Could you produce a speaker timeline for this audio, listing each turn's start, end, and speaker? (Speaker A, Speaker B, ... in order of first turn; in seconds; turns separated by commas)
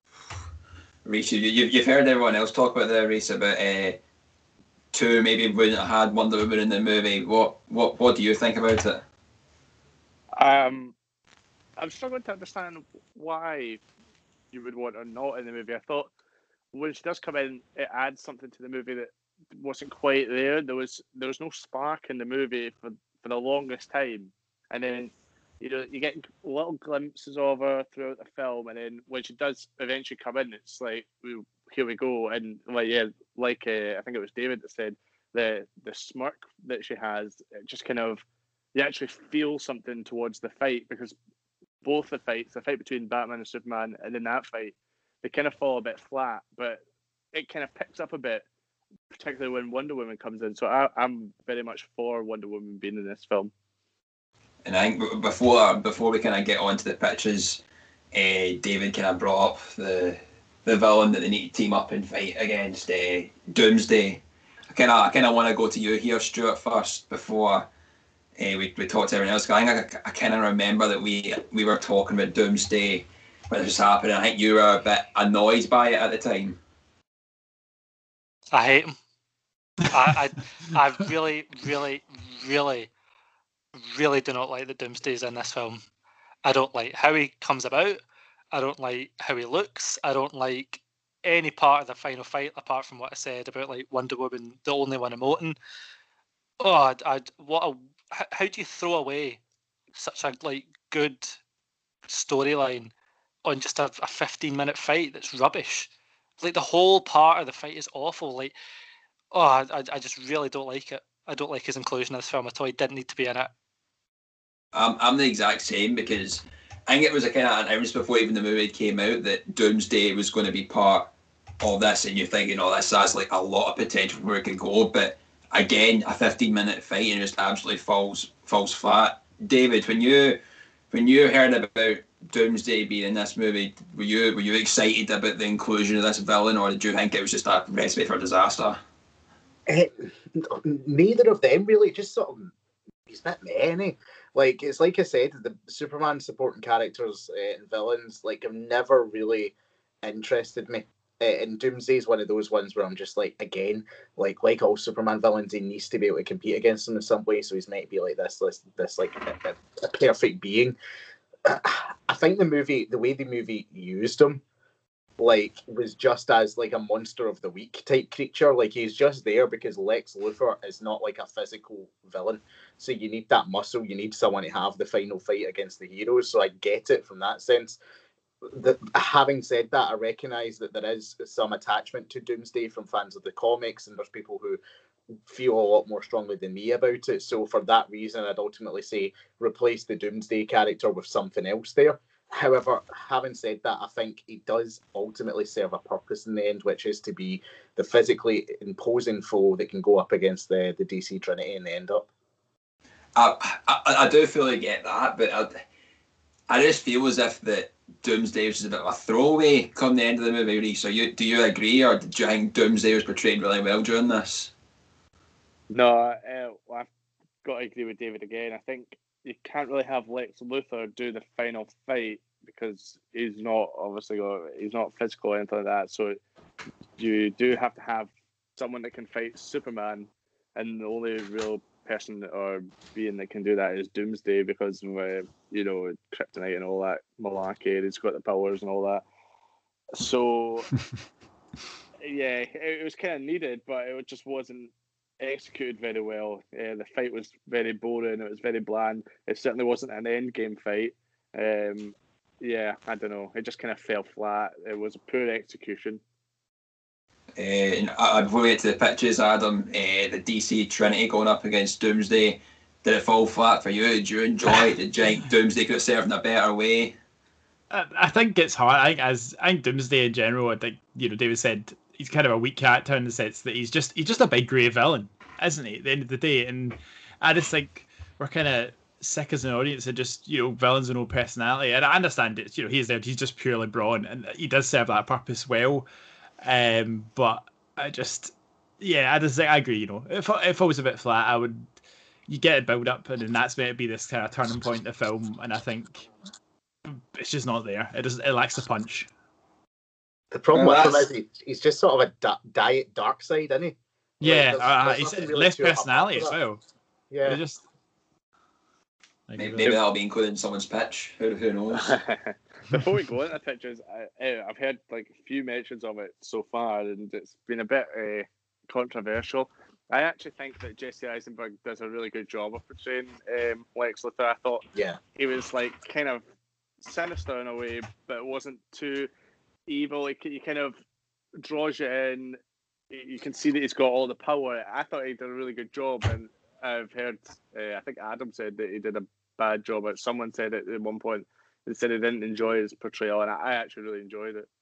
Speaker A: 1.1-4.0, Speaker A: 4.9-9.0, Speaker B: 10.4-10.9, Speaker B: 11.8-13.8, Speaker B: 14.5-16.1, Speaker B: 16.7-38.2, Speaker B: 38.8-41.2, Speaker B: 41.8-46.8, Speaker B: 47.3-48.5, Speaker B: 49.1-53.5, Speaker A: 54.6-57.6, Speaker A: 58.1-67.7, Speaker A: 68.4-76.6, Speaker C: 78.5-79.0, Speaker C: 79.9-82.9, Speaker C: 83.8-85.8, Speaker C: 86.5-88.0, Speaker C: 88.5-95.6, Speaker C: 96.6-99.4, Speaker C: 100.0-101.4, Speaker C: 102.1-102.9, Speaker C: 103.5-105.9, Speaker C: 106.4-108.5, Speaker C: 109.3-113.5, Speaker A: 114.7-121.1, Speaker A: 121.6-130.4, Speaker A: 130.9-138.8, Speaker D: 139.7-142.5, Speaker D: 143.1-160.8, Speaker D: 161.4-164.4, Speaker D: 165.2-177.8, Speaker D: 178.5-184.6, Speaker D: 185.3-202.1, Speaker A: 203.2-205.6, Speaker A: 206.5-214.5, Speaker B: 215.7-216.9, Speaker B: 217.4-226.2, Speaker B: 227.0-239.0, Speaker B: 240.0-240.7, Speaker B: 242.0-256.0, Speaker A: 257.4-266.9, Speaker E: 267.7-285.9, Speaker E: 286.4-291.7, Speaker E: 292.3-296.1, Speaker E: 296.9-299.1, Speaker D: 300.3-306.4, Speaker A: 300.5-301.1, Speaker E: 304.2-306.6, Speaker D: 307.1-307.4, Speaker E: 307.2-307.6, Speaker E: 309.3-309.7, Speaker A: 309.4-312.0, Speaker B: 311.8-324.6, Speaker B: 325.2-326.2, Speaker B: 326.8-329.1, Speaker B: 329.7-330.8, Speaker B: 331.4-332.4, Speaker B: 332.9-344.5